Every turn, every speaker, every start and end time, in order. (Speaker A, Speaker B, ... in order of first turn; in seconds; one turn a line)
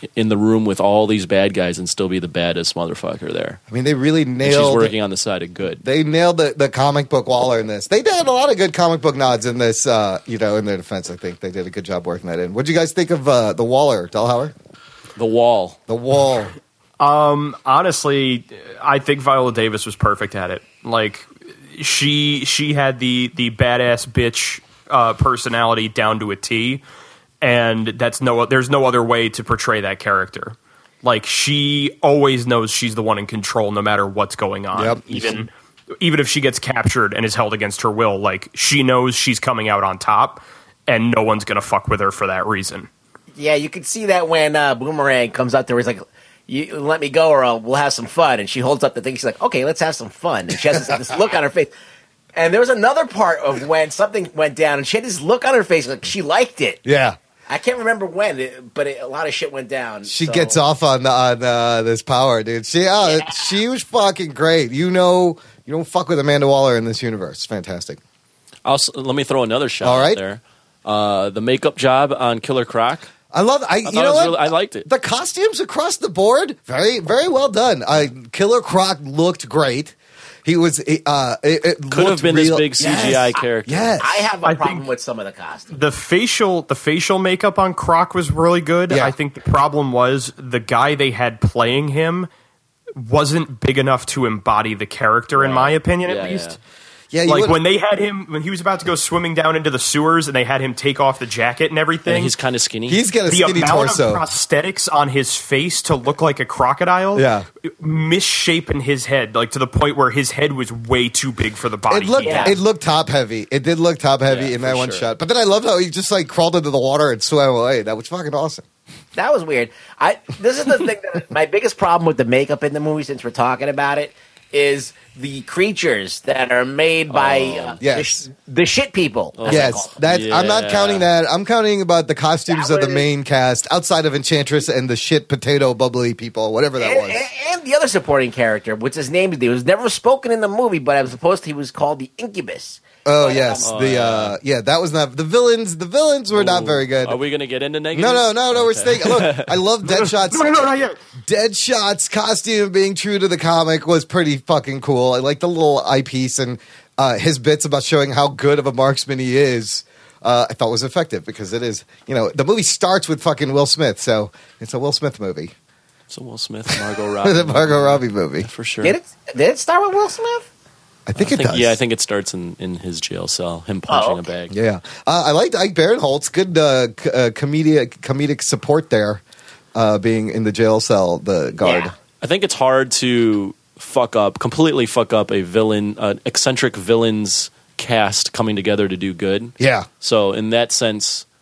Speaker A: 0.1-3.6
Speaker B: 3.7-4.9
Speaker A: 4.4-5.8
Speaker B: 5.8-14.5
Speaker A: 15.2-15.8
Speaker B: 15.9-16.5
Speaker C: 17.0-26.8
Speaker C: 27.4-35.5
Speaker B: 34.7-35.4
Speaker C: 36.0-42.9
Speaker D: 43.4-51.7
Speaker D: 52.3-56.8
Speaker B: 56.8-57.1
Speaker D: 57.5-60.6
Speaker B: 60.0-68.0
Speaker D: 63.0-63.6
Speaker A: 68.6-73.1
Speaker B: 69.8-70.2
Speaker B: 73.3-84.2
Speaker A: 73.8-74.9
Speaker A: 81.9-84.0
Speaker D: 84.0-85.7
Speaker C: 84.4-84.8
Speaker C: 85.7-92.3
Speaker C: 93.0-96.6
Speaker A: 95.3-96.6
Speaker B: 97.1-97.6
Speaker C: 97.3-102.3
Speaker A: 102.0-103.0
Speaker B: 102.9-104.2
Speaker C: 103.3-107.2
Speaker B: 107.1-107.5
Speaker C: 107.8-112.5
Speaker B: 111.9-118.6
Speaker D: 112.2-112.5
Speaker A: 114.2-115.1
Speaker D: 119.2-129.9
Speaker A: 127.1-127.8
Speaker B: 127.8-128.2
Speaker A: 129.4-131.1
Speaker B: 129.4-137.2
Speaker D: 132.5-133.1
Speaker D: 136.8-143.7
Speaker B: 143.0-147.2
Speaker A: 143.6-144.4
Speaker A: 146.3-149.6
Speaker B: 147.9-150.6
Speaker C: 149.8-151.0
Speaker B: 151.2-165.5
Speaker A: 166.1-168.9
Speaker B: 167.2-168.5
Speaker D: 168.8-170.5
Speaker B: 171.1-171.8
Speaker A: 171.1-174.5
Speaker D: 173.9-174.2
Speaker B: 174.5-179.2
Speaker B: 179.7-181.9
Speaker D: 181.6-181.9
Speaker A: 182.2-191.2
Speaker B: 189.6-189.9